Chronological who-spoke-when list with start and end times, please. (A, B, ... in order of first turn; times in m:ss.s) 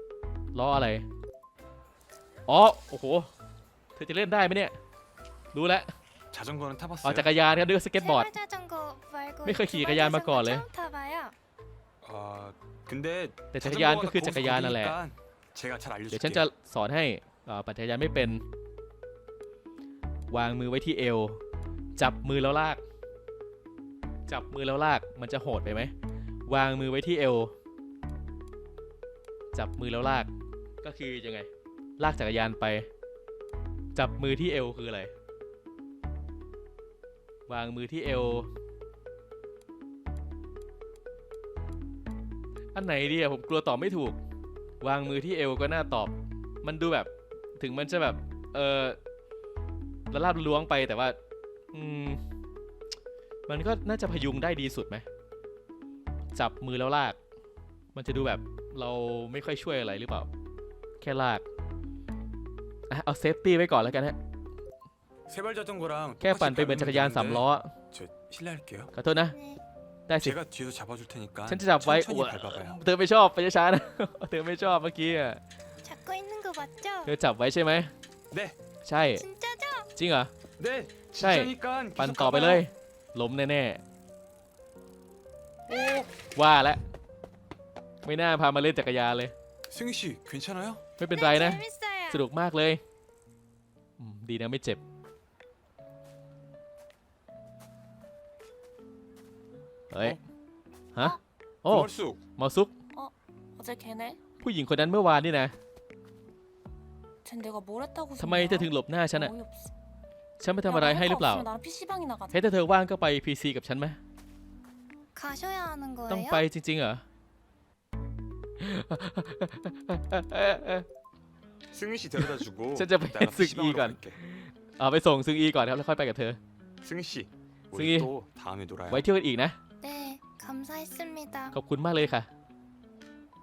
0:00.5-0:01.1 A
0:02.5-0:03.3 A
0:04.0-0:04.7 A
0:05.5-0:05.9 A
0:06.3-0:07.4 B
0:07.0-0:08.3 A
0:07.9-0:11.4 C
0:09.4-0:10.6 A
0:12.0-0:16.5 B
0:13.5-0:15.0 A
0:16.1-0:18.4 A
0:20.3-0:21.4 A
0:22.0-0:22.8 A
0:24.3-0:25.9 A
0:26.5-0:27.5 A
0:29.5-0:30.3 A
0:30.8-0:32.9 A
0:33.9-0:35.1 A
0:37.5-0:38.5 A
0:42.7-0:44.2 A
0:44.8-0:49.0 A
0:50.1-0:51.2 A
0:51.7-0:52.2 A
0:53.5-0:55.0 A
0:56.3-0:57.2 A
0:57.9-1:00.3 A
1:01.0-1:01.4 A
1:02.9-1:04.2 A
1:05.3-1:08.9 B
1:06.2-1:07.7 A
1:08.9-1:09.4 A
1:09.3-1:09.6 C
1:10.1-1:10.4 A
1:10.2-1:12.8 B
1:11.5-1:15.4 A
1:15.8-1:17.1 C
1:17.0-1:17.9 A
1:18.3-1:18.6 B
1:18.8-1:19.2 A
1:19.1-1:19.9 C
1:19.9-1:20.3 A
1:20.6-1:22.6 B
1:21.2-1:23.8 A
1:25.7-1:26.0 B
1:26.3-1:26.8 A
1:28.0-1:29.3 A
1:29.7-1:30.8 B
1:31.0-1:32.8 A
1:31.1-1:32.2 C
1:34.0-1:34.8 A
1:39.9-1:40.2 A
1:40.9-1:42.7 A
1:41.7-1:42.2 B
1:42.9-1:44.2 D
1:44.4-1:45.5 A
1:47.2-1:49.7 D
1:48.2-1:49.3 A
1:50.4-1:51.5 A
1:50.6-1:52.4 D
1:52.3-1:54.0 A
1:55.1-1:56.4 C
1:56.1-1:57.0 A
1:58.6-2:00.8 A
2:01.7-2:04.2 B
2:02.7-2:06.4 A
2:06.8-2:09.1 B
2:07.7-2:08.1 A
2:08.9-2:09.6 A
2:09.8-2:11.6 C
2:11.5-2:12.3 A